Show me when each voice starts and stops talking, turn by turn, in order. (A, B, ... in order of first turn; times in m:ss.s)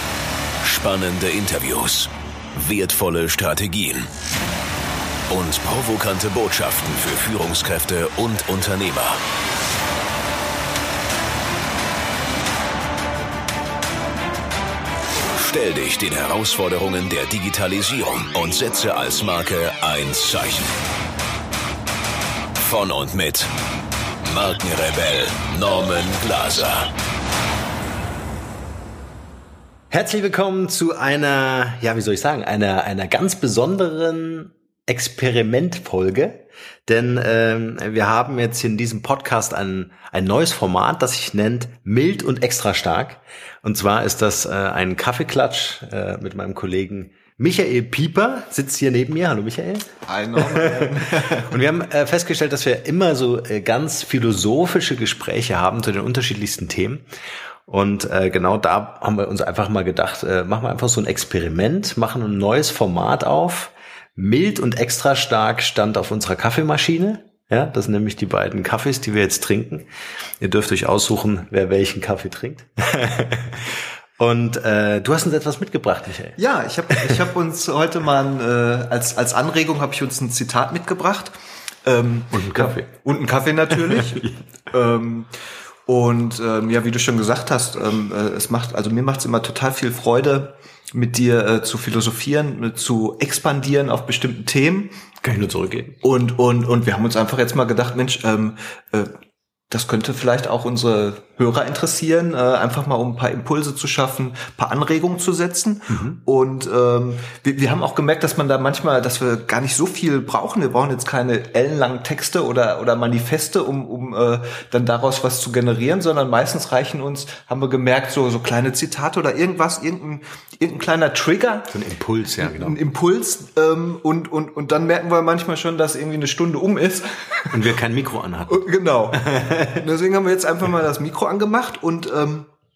0:00.6-0:04.1 A
0:05.3-0:09.2 A
0:15.3-0:20.7 A
0:22.6-0:23.5 A
0:24.2-0:26.9 A
0:29.9-0:57.0 B
0:50.1-0:51.6 C
0:57.7-1:09.9 B
1:10.4-1:16.4 B
1:16.4-1:21.3 C
1:16.9-1:17.2 B
1:21.8-1:25.3 C
1:22.3-1:22.9 B
1:23.7-1:24.4 B
1:25.9-1:34.9 C
1:35.2-1:36.0 B
1:36.0-1:39.1 C
1:39.7-2:01.7 C
1:45.9-1:46.2 B
2:01.7-2:02.8 B
2:02.4-2:07.6 C
2:07.5-2:09.8 B
2:08.5-2:12.5 C